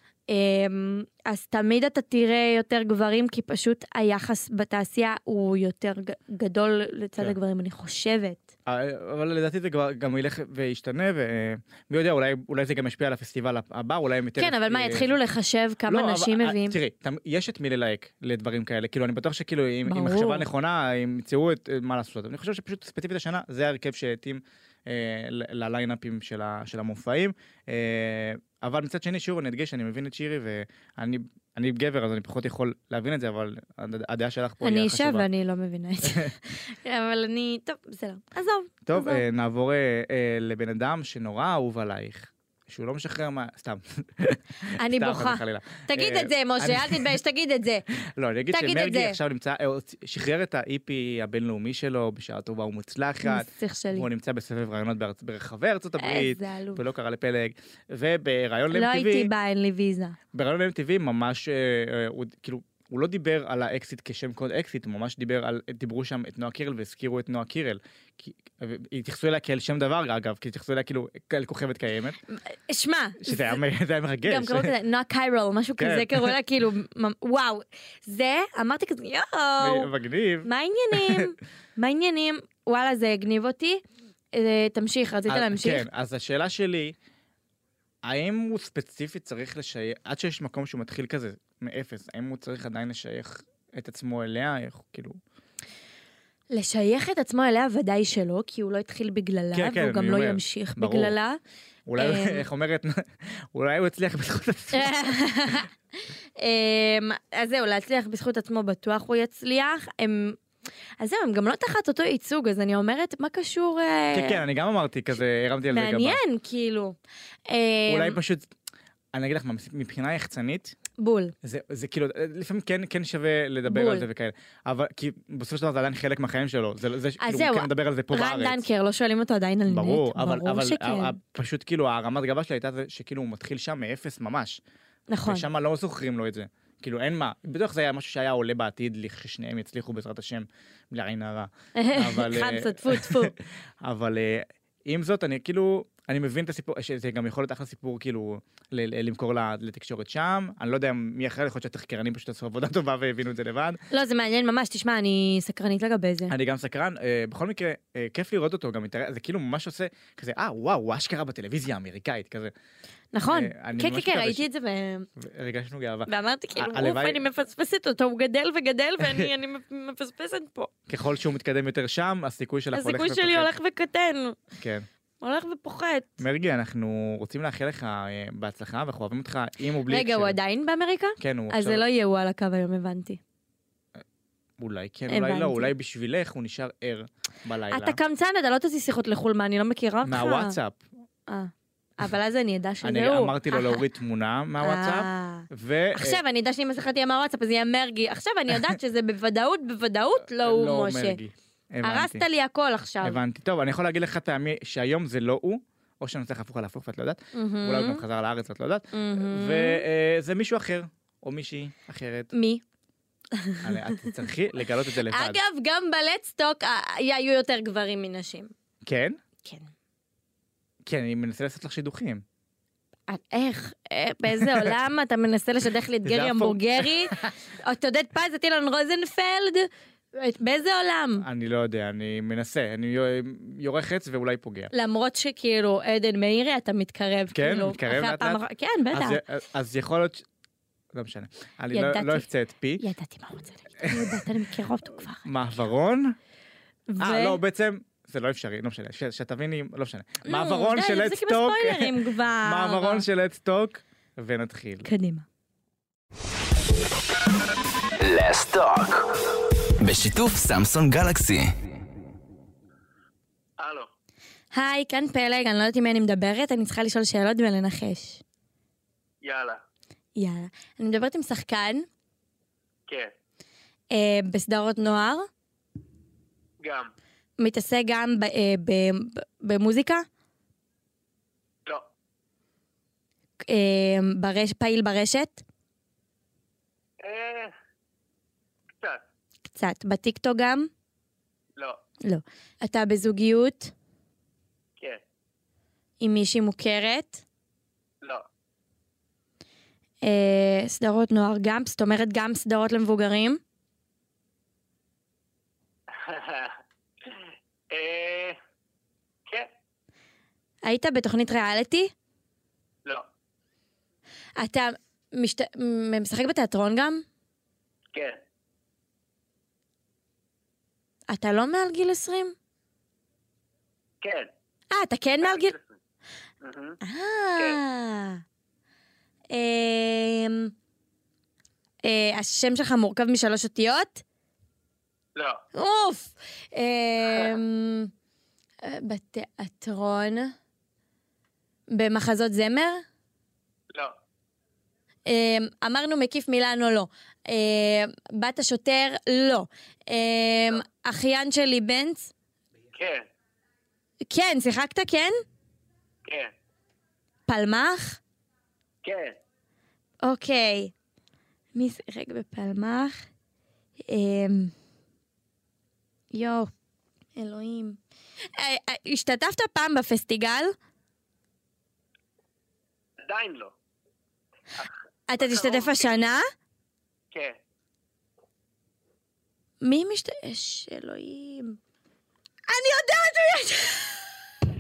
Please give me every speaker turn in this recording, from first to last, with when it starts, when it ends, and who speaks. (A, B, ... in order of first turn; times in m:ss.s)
0:00.3-0:08.5 A
0:08.7-0:15.1 B
0:14.4-0:16.8 A
0:15.9-0:35.3 B
0:19.9-0:20.5 A
0:34.6-0:39.2 A
0:36.0-0:36.3 B
0:38.9-0:47.2 B
0:44.8-0:47.8 A
0:48.2-0:59.3 B
0:48.5-0:49.2 A
0:53.2-0:54.1 A
0:56.0-0:56.8 A
0:58.7-1:00.2 A
1:00.3-1:12.2 B
1:12.3-1:13.6 A
1:13.2-1:14.7 B
1:14.2-1:19.9 A
1:15.8-1:16.4 B
1:19.6-1:21.3 B
1:20.4-1:23.8 A
1:24.3-1:25.9 A
1:25.3-1:27.0 B
1:28.0-1:35.2 B
1:36.5-1:41.4 A
1:39.5-1:41.2 B
1:41.9-1:45.2 B
1:42.0-1:42.4 A
1:44.7-1:45.7 A
1:46.4-1:50.4 A
1:51.0-1:54.4 A
1:54.1-1:56.2 B
1:55.7-1:57.0 A
1:57.5-1:58.2 A
1:57.9-1:58.5 B
1:59.1-2:00.8 B
2:01.0-2:01.3 A
2:01.4-2:08.6 B
2:03.7-2:04.1 A
2:07.2-2:11.2 A
2:09.7-2:14.6 B
2:15.1-2:15.5 A
2:15.3-2:33.8 B
2:21.8-2:23.3 A
2:33.9-2:36.3 A
2:36.3-2:42.5 B
2:43.1-2:45.1 A
2:43.3-2:44.4 B
2:45.2-2:47.2 B
2:46.1-2:50.7 A
2:49.0-2:49.3 B
2:50.9-2:53.5 B
2:52.7-2:54.4 A
2:54.6-2:54.9 B
2:55.2-2:56.1 A
2:56.2-3:00.4 B
2:59.9-3:03.2 A
3:01.2-3:01.8 B
3:04.6-3:08.0 B
3:05.1-3:05.7 A
3:07.7-3:10.6 A
3:10.0-3:10.8 B
3:11.3-3:13.8 A
3:12.8-3:16.2 B
3:14.6-3:21.2 A
3:20.4-3:22.2 B
3:21.8-3:23.2 A
3:23.0-3:32.3 B
3:27.3-3:28.0 A
3:28.9-3:29.8 A
3:32.3-3:32.6 A
3:33.3-3:34.2 A
3:33.6-3:35.4 B
3:35.1-3:38.5 A
3:38.9-3:39.2 B
3:39.4-3:39.7 A
3:40.8-3:42.2 B
3:43.1-3:51.2 A
3:46.0-3:47.3 B
3:51.2-3:54.7 B
3:54.7-3:59.2 A
3:57.3-3:58.4 B
3:58.9-4:00.2 B
4:00.9-4:02.9 B
4:01.7-4:02.3 A
4:02.8-4:05.3 A
4:03.8-4:04.3 B
4:05.2-4:06.2 B
4:06.9-4:07.4 A
4:07.0-4:14.9 B
4:10.3-4:13.0 A
4:14.8-4:15.3 A
4:18.0-4:19.2 C
4:19.8-4:21.5 C
4:23.6-4:23.9 D
4:24.5-4:28.2 A
4:29.2-4:29.6 D
4:30.2-4:31.9 A
4:33.9-4:35.3 A
4:36.6-4:36.9 D
4:37.4-4:40.1 A
4:43.4-4:45.4 A
4:47.0-4:47.5 D
4:48.8-4:49.0 D
4:49.5-4:50.7 A
4:52.0-4:53.7 A
4:56.0-4:57.2 A
5:00.0-5:03.4 A
5:05.9-5:08.4 D
5:10.6-5:11.9 A
5:14.4-5:17.1 A
5:17.9-5:18.2 D
5:21.1-5:22.4 A
5:24.0-5:24.3 D
5:24.7-5:25.6 A
5:25.2-5:25.7 D
5:26.4-5:26.8 D
5:26.8-5:28.2 A
5:29.3-5:30.5 A
5:31.8-5:34.0 A
5:35.2-5:35.4 D
5:35.6-5:37.9 A
5:37.1-5:37.4 D
5:38.6-5:40.4 A
5:41.7-5:42.8 A
5:45.1-5:52.1 A
5:52.7-5:53.0 D
5:54.0-5:55.2 A
5:56.0-5:56.3 D
5:57.3-5:58.0 A
5:58.8-5:59.2 D
6:00.0-6:00.7 A
6:01.6-6:03.0 A
6:03.9-6:04.5 A
6:06.1-6:06.5 A
6:07.2-6:07.8 A
6:08.4-6:10.6 A
6:13.0-6:13.6 D
6:14.6-6:15.9 D
6:15.1-6:16.3 A
6:17.1-6:17.4 D
6:19.6-6:21.6 A
6:22.5-6:24.1 A